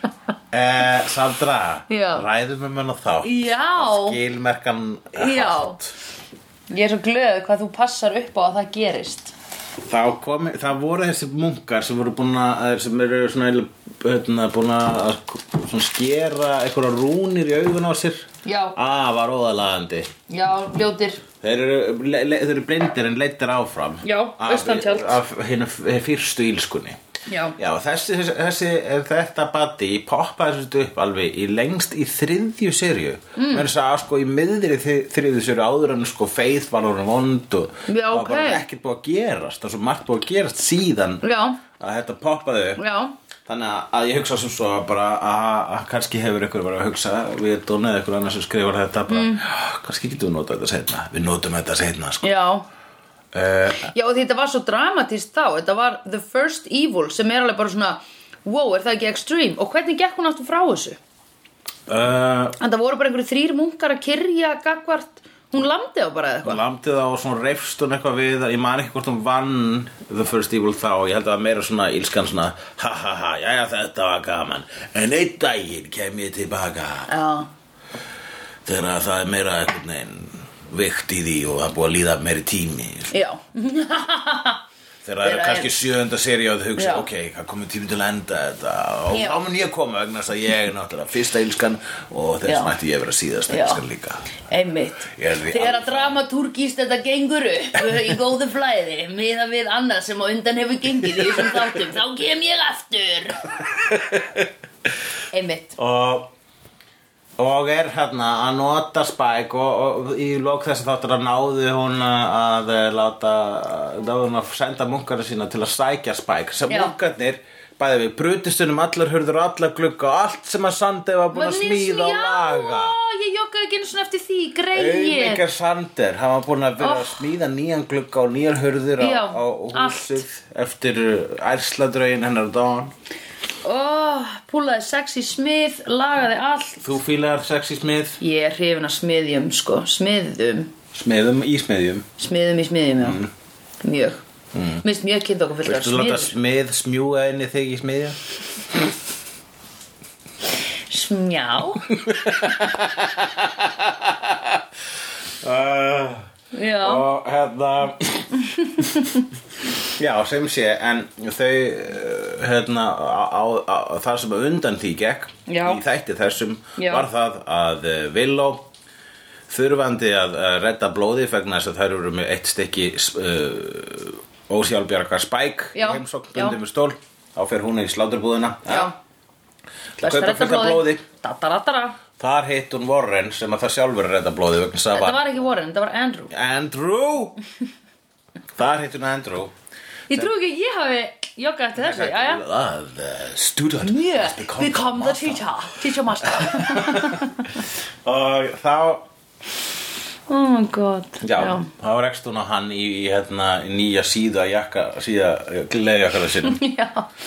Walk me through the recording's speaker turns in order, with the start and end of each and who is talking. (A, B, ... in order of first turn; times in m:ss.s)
0:00.5-0:05.9 A
0:01.9-0:02.2 B
0:03.2-0:04.2 B
0:05.1-0:05.8 B
0:06.7-0:09.3 B
0:09.8-0:20.1 A
0:18.4-0:18.8 B
0:20.3-0:21.2 B
0:21.4-0:27.0 A
0:24.0-0:25.2 B
0:27.3-0:27.6 B
0:27.6-0:42.8 A
0:33.4-0:33.7 B
0:37.9-0:38.6 B
0:41.2-0:41.6 B
0:42.8-0:43.1 B
0:43.5-0:52.3 A
0:49.1-0:49.4 B
0:52.2-0:52.6 B
0:53.3-0:53.9 A
0:53.7-1:01.0 B
1:01.9-1:02.6 A
1:02.6-1:06.6 B
1:06.4-1:17.1 A
1:17.1-1:17.5 B
1:18.6-1:23.1 A
1:23.1-1:24.6 B
1:25.0-1:34.2 A
1:25.2-1:25.7 B
1:26.8-1:27.1 B
1:29.1-1:29.4 B
1:32.4-1:32.7 B
1:33.5-1:33.8 B
1:34.5-1:43.4 B
1:35.1-1:36.2 A
1:43.8-1:44.5 A
1:45.3-1:45.8 B
1:45.8-1:46.3 A
1:47.4-2:03.0 A
1:56.7-1:56.9 B
2:01.3-2:05.4 B
2:04.7-2:12.9 A
2:06.8-2:07.2 B
2:09.0-2:10.2 B
2:13.6-2:16.8 B
2:16.8-2:18.2 A
2:18.2-2:20.7 B
2:20.9-2:22.1 A
2:22.2-2:23.2 B
2:23.0-2:23.3 A
2:23.8-2:24.2 B
2:24.5-2:24.8 A
2:24.8-2:26.3 B
2:25.6-2:28.2 A
2:30.9-2:31.9 B
2:32.0-2:34.6 A
2:35.4-2:38.3 A
2:36.5-2:37.1 B
2:38.6-2:39.2 B
2:39.8-2:48.7 A
2:45.5-2:45.8 B
2:46.8-2:47.1 B
2:49.5-2:58.9 A
2:55.7-2:56.6 B
2:58.7-2:59.0 B
3:00.0-3:01.0 A
3:00.0-3:02.0 B
3:02.2-3:05.2 A
3:04.9-3:06.3 B
3:06.3-3:07.4 A
3:08.6-3:09.5 A
3:10.1-3:12.4 B
3:11.8-3:19.0 A
3:13.8-3:17.6 B
3:20.3-3:21.7 B
3:21.2-3:26.6 A
3:26.4-3:27.1 B